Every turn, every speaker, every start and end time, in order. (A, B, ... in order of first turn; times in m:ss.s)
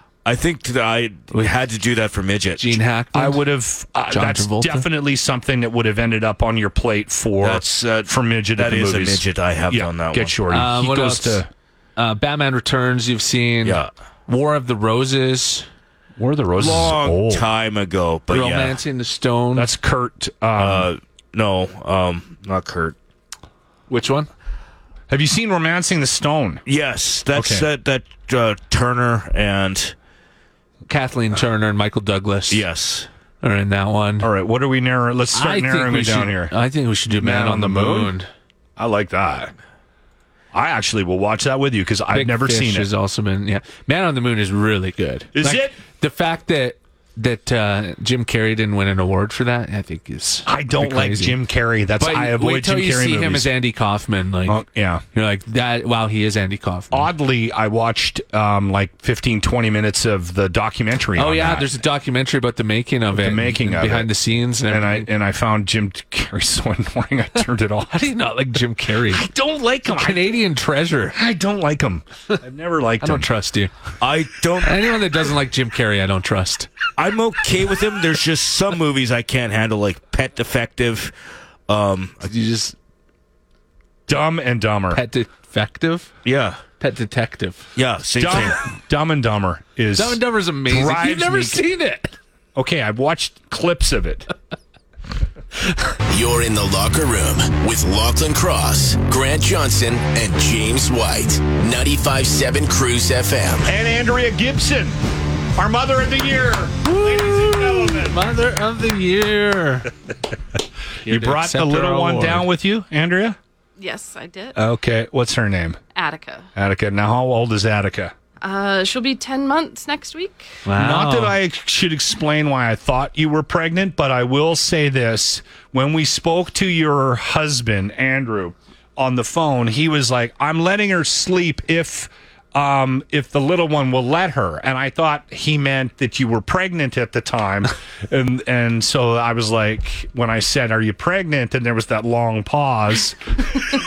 0:00.2-0:02.8 A
0:02.6-0:03.4 B
0:03.1-0:11.5 C
0:04.1-0:04.9 B
0:07.4-0:10.3 A
0:10.5-0:11.4 B
0:12.0-0:15.6 B
0:13.6-0:13.9 A
0:16.2-0:17.5 C
0:16.6-0:18.8 A
0:18.3-0:19.7 B
0:19.6-0:20.9 C
0:20.6-0:23.0 A
0:23.9-0:24.3 B
0:25.1-0:26.6 C
0:26.6-0:29.9 A
0:27.3-0:27.7 C
0:30.9-0:32.6 B
0:32.5-0:33.1 A
0:33.4-0:34.3 B
0:34.2-0:36.5 C
0:35.3-0:38.3 B
0:37.1-0:38.1 C
0:38.8-0:39.5 C
0:40.5-0:42.9 C
0:42.1-0:51.4 B
0:45.3-0:45.8 C
0:50.4-0:53.5 C
0:52.0-0:54.6 B
0:54.4-0:55.0 C
0:55.1-0:57.1 B
0:56.9-1:01.7 C
1:01.2-1:05.1 B
1:03.1-1:04.1 C
1:04.6-1:07.9 C
1:07.9-1:09.3 B
1:09.1-1:10.3 C
1:09.9-1:11.2 B
1:11.1-1:13.3 C
1:13.0-1:13.7 B
1:14.0-1:14.8 A
1:14.6-1:16.7 B
1:17.0-1:21.1 A
1:21.7-1:22.3 A
1:22.3-1:22.7 B
1:24.1-1:25.0 C
1:24.9-1:26.1 B
1:26.2-1:26.6 A
1:26.8-1:27.7 B
1:27.8-1:28.6 A
1:28.2-1:31.7 C
1:30.0-1:32.1 B
1:32.6-1:34.3 C
1:36.1-1:43.7 D
1:43.6-1:45.0 C
1:45.6-1:48.3 C
1:46.8-1:49.9 B
1:51.0-1:52.4 B
1:51.0-1:53.4 C
1:53.8-1:54.6 E
1:54.6-1:55.8 C
1:55.9-1:56.5 E
1:56.6-1:58.1 C
1:58.4-2:00.6 E
2:00.6-2:01.4 B
2:00.7-2:23.2 C